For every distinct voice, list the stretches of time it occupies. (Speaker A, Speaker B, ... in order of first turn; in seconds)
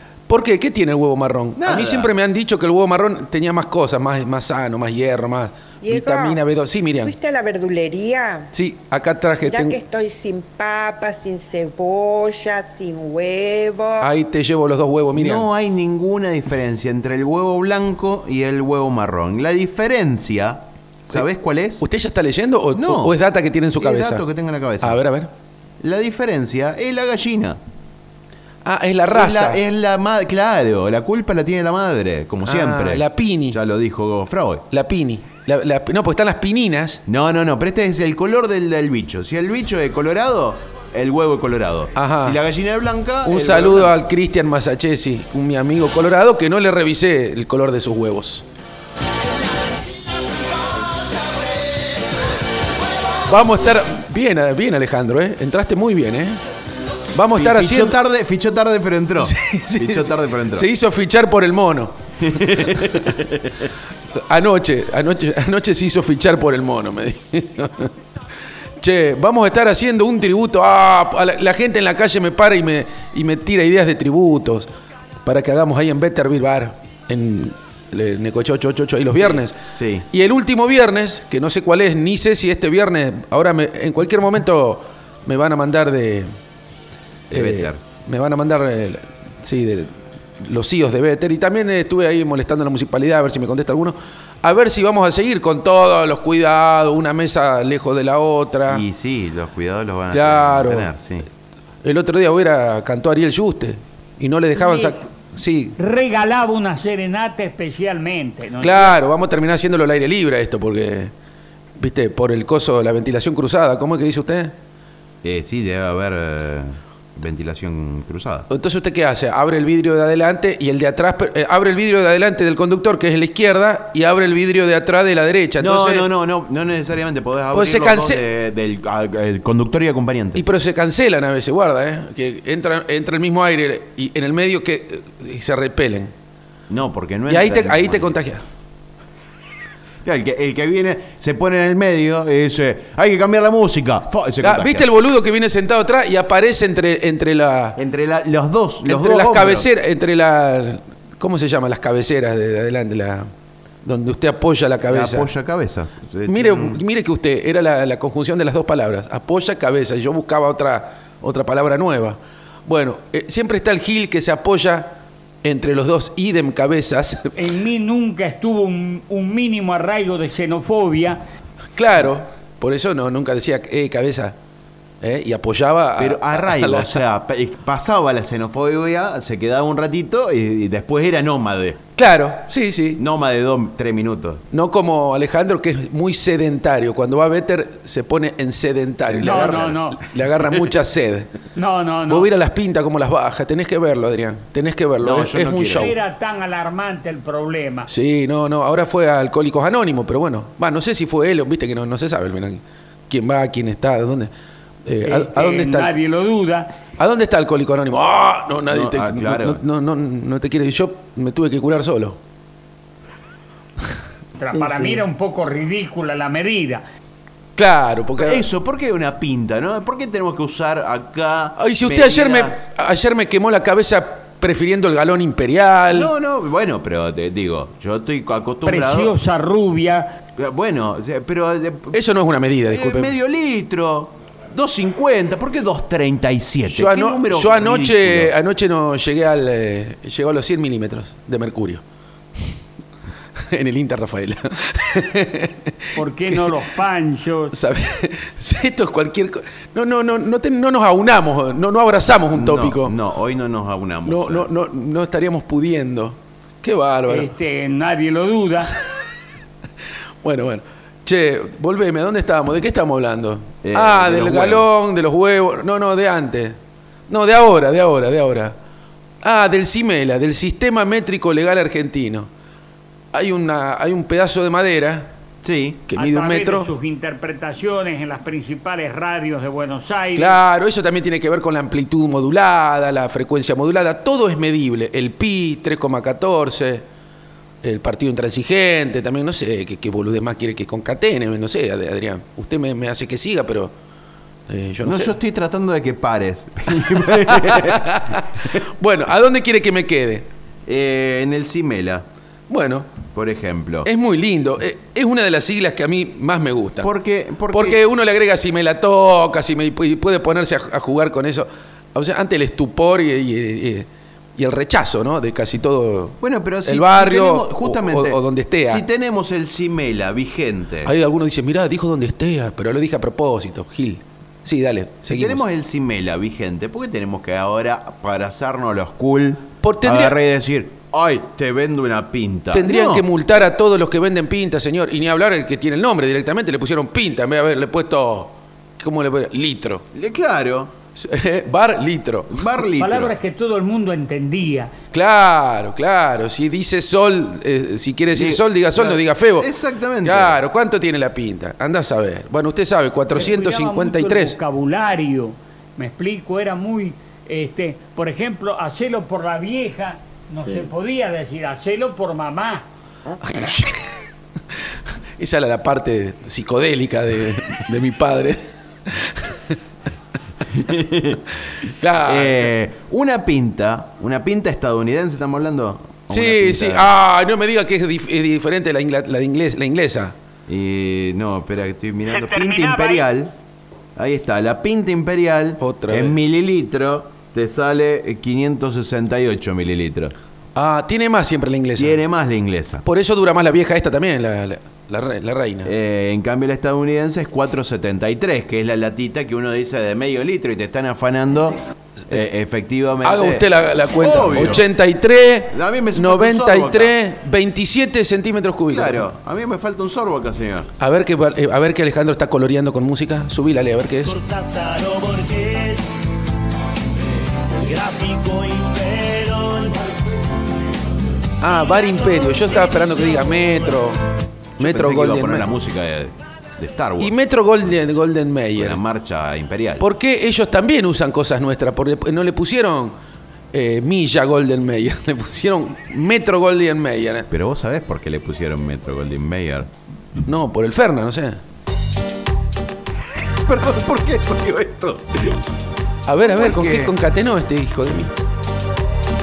Speaker A: 0.3-7.1, 8.5-9.8, 14.0-15.5, 21.8-24.2, 24.8-25.3, 28.6-29.6, 32.4-33.6, 34.7-37.0, 42.0-42.4, 43.2-48.4, 53.3-56.4, 57.1-58.0, 59.2-63.0, 64.2-67.9, 68.8-74.7, 75.2-79.6, 80.1-86.3, 87.3-98.8, 100.1-100.9, 101.8-105.8, 108.6-111.1, 111.8-114.5, 118.5-126.1, 127.5-128.2, 130.3-136.1, 137.3-138.4, 144.4-147.8, 148.9-153.3, 153.8-155.3, 156.3-167.3, 171.8-174.3, 175.0-177.0, 182.0-183.0, 184.5-191.3, 192.1-195.9, 197.9-204.3, 204.8-205.9, 207.0-212.2, 214.5-215.0, 217.6-218.5, 221.6-226.1, 231.9-233.2, 236.7-241.8, 243.4-246.5, 247.5-252.9, 254.1-257.3, 260.2-266.6, 267.1-268.5, 269.2-272.3, 273.1-275.1, 275.9-276.7, 280.1-286.8, 287.6-293.7, 294.5-295.1, 297.0-300.3, 302.5-302.9, 303.9-306.9, 307.5-318.8, 320.9-325.4, 329.6-330.2, 332.5-339.8, 341.0-342.5, 344.9-349.5, 350.0-354.4, 363.2-363.9, 365.2-369.6, 371.5-372.5, 376.1-380.1, 385.6-386.2, 390.5-392.0, 392.8-395.7, 403.0-409.1, 410.8-414.2, 421.4-424.0, 424.6-425.5, 427.0-428.8, 429.8-432.9, 433.5-437.3, 440.2-441.4, 446.1-448.1
Speaker B: 1.6-2.1, 15.1-21.8, 22.7-23.2, 23.8-25.0, 25.8-27.6, 29.1-34.6, 37.0-44.0, 57.3-60.7, 62.2-63.7, 79.1-80.1, 87.3-87.8, 98.7-101.3, 115.2-118.5, 125.6-130.4, 136.7-138.2, 140.0-144.9, 147.8-149.7, 154.9-156.8, 176.0-181.8, 183.0-184.4, 189.1-189.7, 195.0-195.9, 208.7-209.6, 218.2-222.6, 225.9-229.2, 230.3-232.0, 232.7-238.3, 252.3-254.5, 263.6-264.7, 275.4-275.8, 294.8-298.6, 300.6-302.1, 303.1-303.9, 306.8-307.8, 316.2-320.9, 325.0-333.1, 339.9-340.7, 342.3-343.1, 348.1-350.4, 370.5-371.2, 372.0-376.9, 380.5-383.3, 383.9-390.1, 391.8-392.8, 395.6-404.7, 405.5-406.9, 408.7-410.7, 424.6-427.2, 428.5-429.9, 437.3-439.7, 443.4-445.4, 446.2-446.9
Speaker C: 5.8-6.4, 7.0-8.5, 9.5-14.1
Speaker D: 104.5-105.0, 105.8-109.0, 167.3-171.2, 189.2-190.0, 191.6-192.3, 195.8-197.9, 205.1-206.7, 214.4-216.8, 228.7-230.2, 246.0-247.5, 257.1-258.7, 276.0-280.4, 342.8-344.7, 353.1-362.6, 382.1-383.0
Speaker E: 414.2-415.8, 417.5-419.8, 422.6-423.0